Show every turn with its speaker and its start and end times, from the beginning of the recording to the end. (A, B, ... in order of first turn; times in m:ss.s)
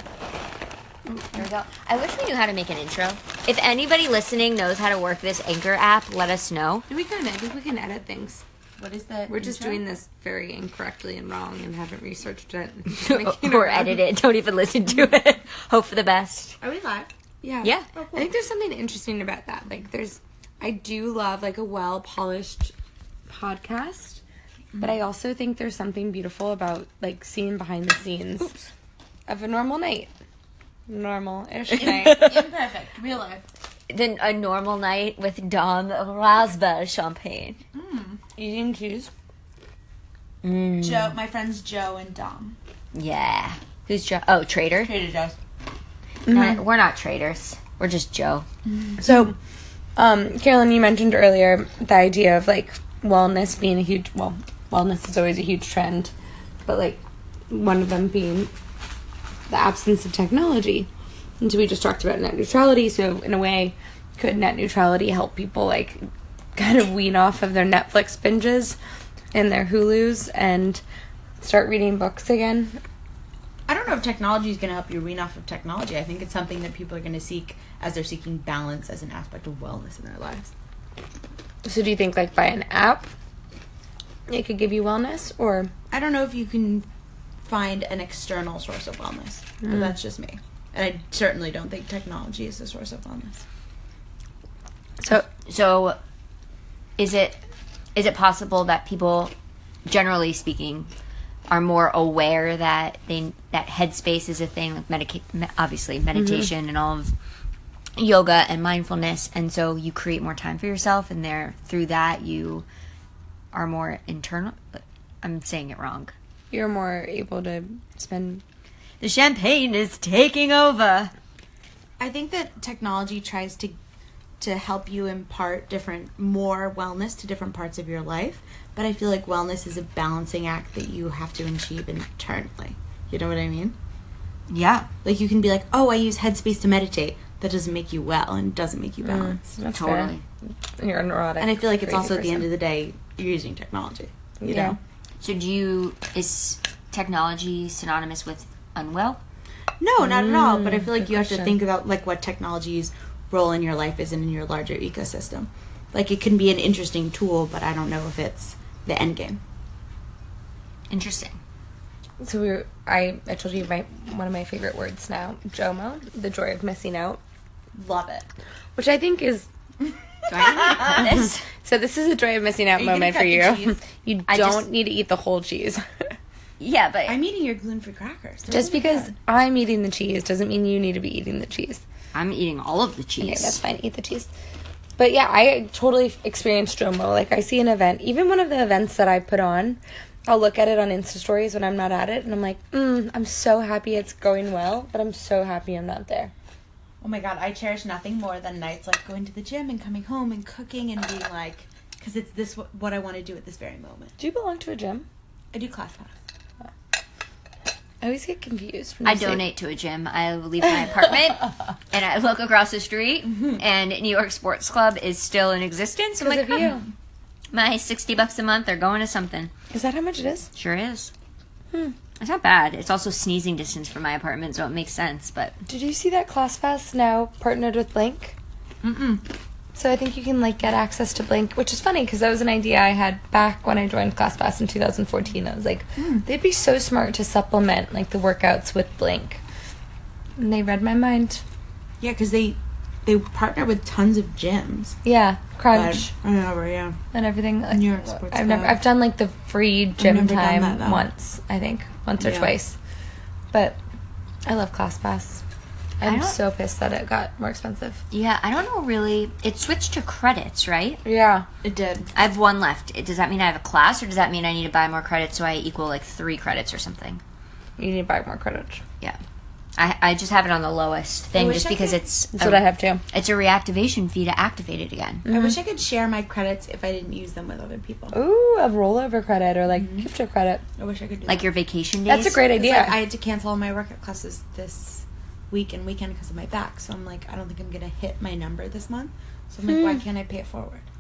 0:01.2-0:06.8 A
0:06.9-0:08.4 B
0:08.8-0:09.8 C
0:09.3-0:14.0 B
0:12.9-0:16.6 A
0:16.6-0:17.1 C
0:17.4-0:22.7 B
0:17.6-0:17.9 A
0:17.9-0:18.3 C
0:23.3-0:24.2 B
0:24.8-0:28.5 B
0:29.3-0:30.1 B
0:30.9-0:32.4 B
0:31.8-0:33.4 C
0:33.9-0:37.6 A
0:37.7-0:38.2 C
0:38.4-0:39.1 B
0:40.4-0:41.1 A
0:40.8-0:42.6 C
0:42.9-0:44.9 A
0:44.8-0:45.4 C
0:46.2-0:46.6 B
0:46.3-0:48.4 A
0:48.9-0:49.3 C
0:49.0-0:49.3 B
0:50.0-0:56.1 B
0:56.6-0:58.5 B
0:59.5-1:00.9 B
1:01.4-1:06.0 B
1:06.6-1:08.8 B
1:09.3-1:10.8 B
1:11.4-1:12.8 B
1:13.7-1:20.5 C
1:21.6-1:23.1 B
1:24.3-1:25.7 B
1:25.9-1:26.9 C
1:27.4-1:33.4 C
1:29.6-1:29.9 B
1:35.1-1:36.0 A
1:37.0-1:37.4 A
1:37.9-1:39.3 A
1:39.8-1:40.9 A
1:41.5-1:47.1 A
1:46.2-1:46.5 B
1:48.0-1:52.6 A
1:53.5-1:56.1 A
1:56.5-1:58.4 B
1:59.0-2:01.1 A
2:02.0-2:03.8 C
2:04.4-2:13.8 C
2:14.5-2:14.9 A
2:15.0-2:19.4 C
2:19.0-2:20.1 B
2:19.7-2:20.2 A
2:20.8-2:22.5 B
2:21.4-2:24.8 C
2:24.4-2:24.8 B
2:25.2-2:29.2 A
2:29.8-2:39.4 C
2:30.0-2:31.6 B
2:40.9-2:41.4 A
2:42.2-2:47.2 B
2:47.7-2:48.3 C
2:48.8-2:49.5 B
2:49.8-2:51.0 C
2:50.3-2:51.4 A
2:51.4-2:55.8 B
2:52.7-2:53.8 C
2:54.3-2:54.7 A
2:56.6-2:57.2 A
2:57.1-2:59.1 C
2:58.5-3:01.8 B
3:02.1-3:03.6 A
3:03.2-3:04.3 B
3:05.0-3:16.3 B
3:17.0-3:24.1 C
3:24.2-3:25.0 B
3:25.5-3:26.1 C
3:28.0-3:29.5 B
3:29.0-3:36.7 A
3:36.2-3:36.8 B
3:37.5-3:39.5 A
3:39.7-3:40.5 B
3:40.5-3:41.1 A
3:42.2-3:45.5 A
3:45.7-3:48.4 B
3:48.8-3:49.2 C
3:49.8-3:59.4 B
3:56.0-3:56.2 C
4:00.4-4:01.4 B
4:02.0-4:05.0 C
4:05.0-4:06.1 B
4:05.7-4:07.0 C
4:07.1-4:12.8 B
4:07.7-4:08.8 C
4:10.0-4:11.0 C
4:12.2-4:12.5 C
4:13.5-4:13.8 B
4:14.4-4:15.4 B
4:16.0-4:18.0 B
4:16.0-4:16.4 A
4:18.1-4:21.0 A
4:21.0-4:21.5 B
4:21.6-4:22.1 C
4:22.2-4:27.2 A
4:27.8-4:28.8 B
4:29.8-4:35.2 A
4:31.3-4:32.0 C
4:32.3-4:33.0 B
4:35.2-4:35.5 B
4:35.2-4:38.1 C
4:38.1-4:40.6 B
4:39.7-4:40.1 C
4:40.8-4:41.5 C
4:41.3-4:42.4 A
4:42.1-4:43.0 B
4:42.5-4:50.8 C
4:49.7-4:50.0 B